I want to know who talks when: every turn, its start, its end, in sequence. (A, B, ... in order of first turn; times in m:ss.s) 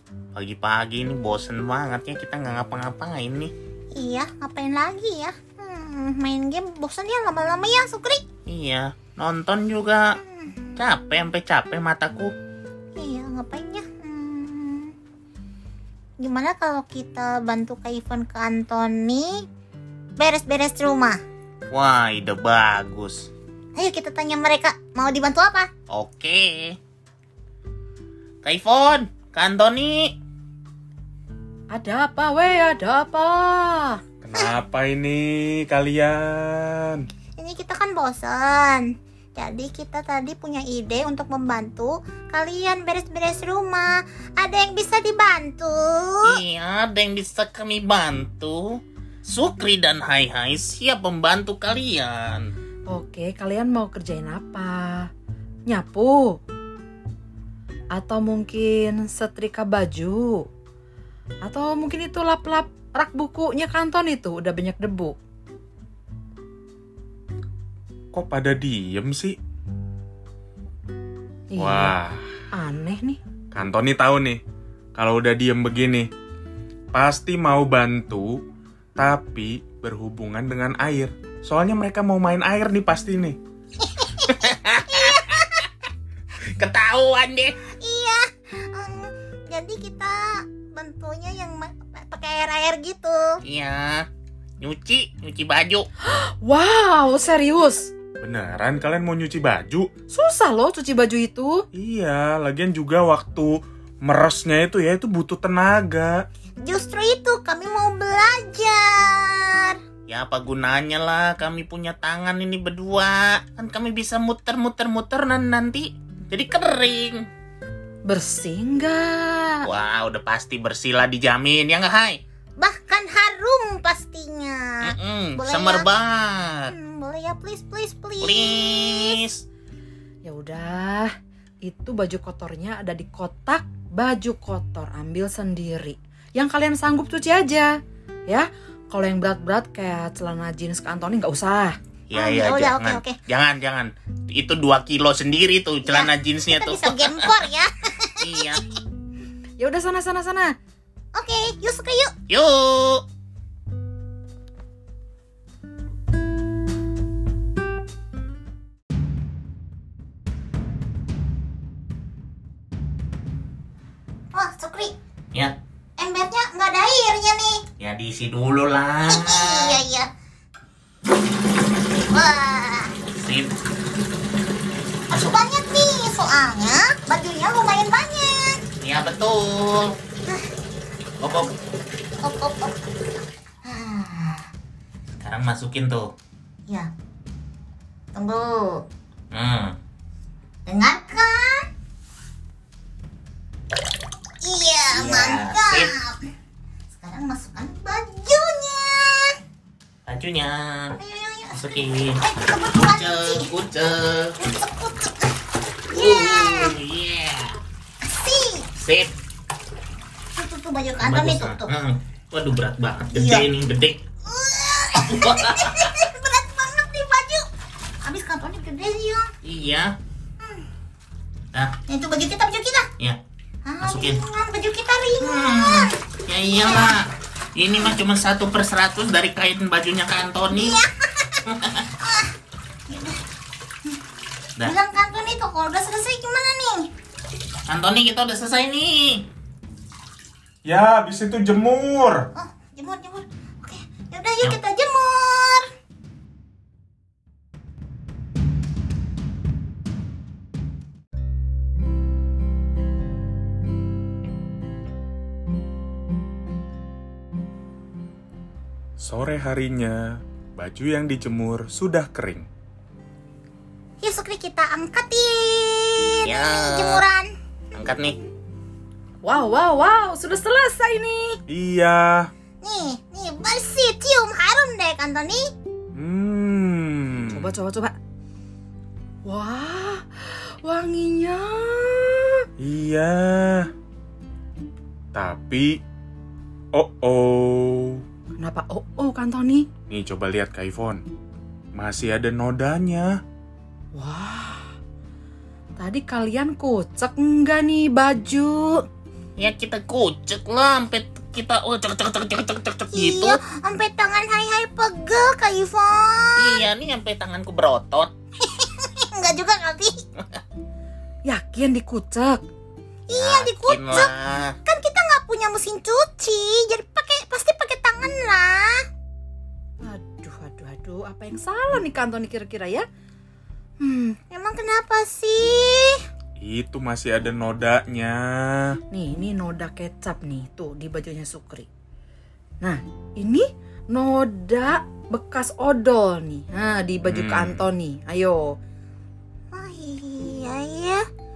0:00.3-0:03.5 A
0:03.9-0:08.2 B
0:08.4-0:10.1 A
0:10.2-0:10.5 B
0:10.8-0:12.3 A
0:13.0-0:14.9 B
0:16.2-0:19.4 B
0:20.2-0:21.2 B
0:21.7-0:23.3 A
0:23.8-0:25.7 B
0:25.9-0:26.8 A
0:28.4-0:30.1 A
0:31.7-0:34.0 C
0:34.2-0:37.0 D
0:37.4-0:38.8 B
0:39.4-0:46.4 B
0:46.2-0:52.5 A
0:52.9-0:55.1 C
0:55.7-0:56.4 C
0:57.9-1:00.4 C
1:01.4-1:05.2 C
1:08.1-1:09.3 D
1:11.5-1:11.9 C
1:11.6-1:12.3 D
1:12.5-1:13.2 C
1:13.5-1:14.4 D
1:15.0-1:16.1 D
1:16.9-1:18.4 D
1:19.0-1:23.4 D
1:23.8-1:25.6 B
1:24.2-1:25.6 A
1:26.5-1:27.6 A
1:27.6-1:33.4 B
1:33.4-1:34.1 A
1:34.6-1:35.9 A
1:36.0-1:37.9 C
1:38.2-1:39.9 D
1:40.1-1:41.6 C
1:41.7-1:46.1 D
1:46.6-1:49.8 B
1:50.1-1:57.2 A
1:58.0-1:59.6 C
1:59.6-2:02.2 A
2:02.6-2:05.9 B
2:04.8-2:06.7 A
2:06.7-2:09.2 B
2:08.2-2:09.4 A
2:10.2-2:11.1 C
2:11.6-2:17.7 C
2:18.3-2:21.8 C
2:22.1-2:27.2 A
2:22.1-2:23.2 B
2:25.8-2:28.6 B
2:28.2-2:28.6 A
2:29.6-2:30.5 C
2:31.1-2:32.2 B
2:32.3-2:33.0 A
2:44.3-2:44.9 B
2:46.0-2:47.6 B
2:47.8-2:49.8 A
2:49.1-2:50.1 B
2:52.0-2:53.0 B
2:53.2-2:53.6 A
2:55.1-2:58.6 B
2:58.8-3:00.0 A
3:01.2-3:01.5 A
3:02.2-3:02.7 B
3:03.6-3:04.5 B
3:05.2-3:06.1 A
3:08.1-3:08.8 B
3:09.3-3:09.8 A
3:10.6-3:11.7 B
3:14.4-3:16.2 B
3:14.9-3:15.9 A
3:17.0-3:19.4 B
3:20.1-3:21.0 A
3:21.0-3:23.5 B
3:21.5-3:24.4 A
3:24.4-3:26.8 B
3:25.9-3:27.6 A
3:28.0-3:28.7 B
3:28.8-3:29.1 A
3:30.4-3:31.7 B
3:31.0-3:34.0 A
3:33.1-3:33.5 B
3:34.2-3:37.4 B
3:35.1-3:35.9 A
3:38.0-3:39.3 B
3:39.4-3:39.9 A
3:40.4-3:40.6 B
3:41.8-3:42.9 B
3:43.6-3:47.0 B
3:43.8-3:44.2 A
3:45.2-3:50.8 A
3:50.5-3:52.3 B
3:51.5-3:51.8 A
3:52.9-3:53.2 B
3:54.6-3:56.9 B
3:57.7-3:59.3 A
4:00.6-4:02.3 D
4:02.3-4:05.7 B
4:19.0-4:22.5 D
4:24.0-4:27.3 B
4:26.3-4:27.0 A
4:27.7-4:28.2 A
4:29.2-4:31.4 C
4:31.5-4:32.3 D
4:32.6-4:35.4 B
4:35.9-4:37.5 D
4:37.3-4:37.9 C
4:39.2-4:42.4 C
4:42.6-4:43.7 D
4:45.1-4:45.8 D
4:46.7-4:48.0 D
4:48.3-4:49.6 C
4:49.9-4:51.0 D
4:51.7-4:53.1 D
4:53.9-4:54.7 C
4:55.8-4:58.8 C
4:59.4-5:03.4 A
5:02.9-5:06.6 B
5:06.4-5:08.1 A
5:08.4-5:10.0 B
5:11.2-5:12.4 C
5:13.1-5:14.1 B
5:13.1-5:14.5 A
5:14.6-5:18.8 B
5:19.8-5:22.8 C
5:23.8-5:24.2 C
5:24.3-5:26.0 B
5:26.4-5:28.8 D
5:28.9-5:31.7 C
5:32.6-5:38.4 C
5:37.0-5:37.6 D
5:39.5-5:41.0 B